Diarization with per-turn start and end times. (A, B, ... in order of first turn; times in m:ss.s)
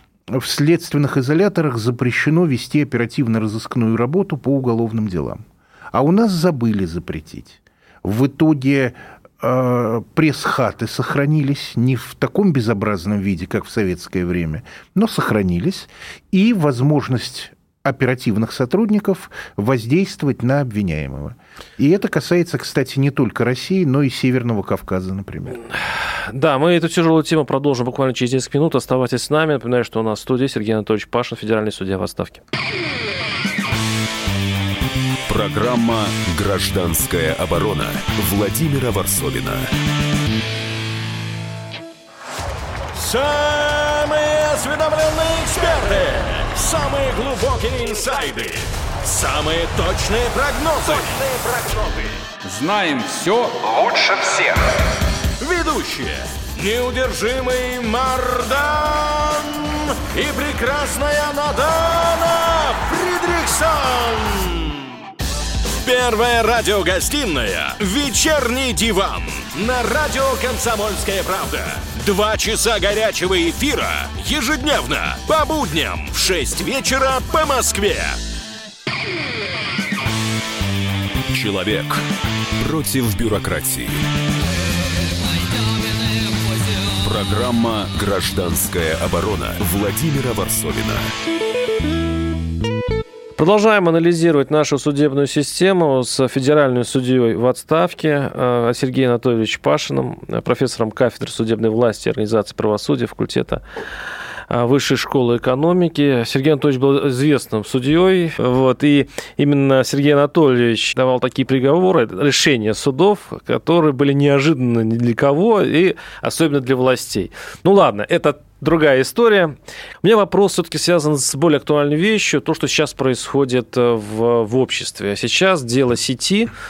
0:00.3-0:25.6 A
0:26.3-0:32.4 B
0:35.3-0:39.7 C
0:42.9-0:52.2 D
0:52.4-0:54.6 E
0:55.4-1:04.8 D
1:05.8-1:18.2 D
1:21.3-1:22.0 C
1:22.6-1:24.0 C
1:27.0-1:31.2 C
1:33.4-1:43.6 B
1:44.5-2:06.5 B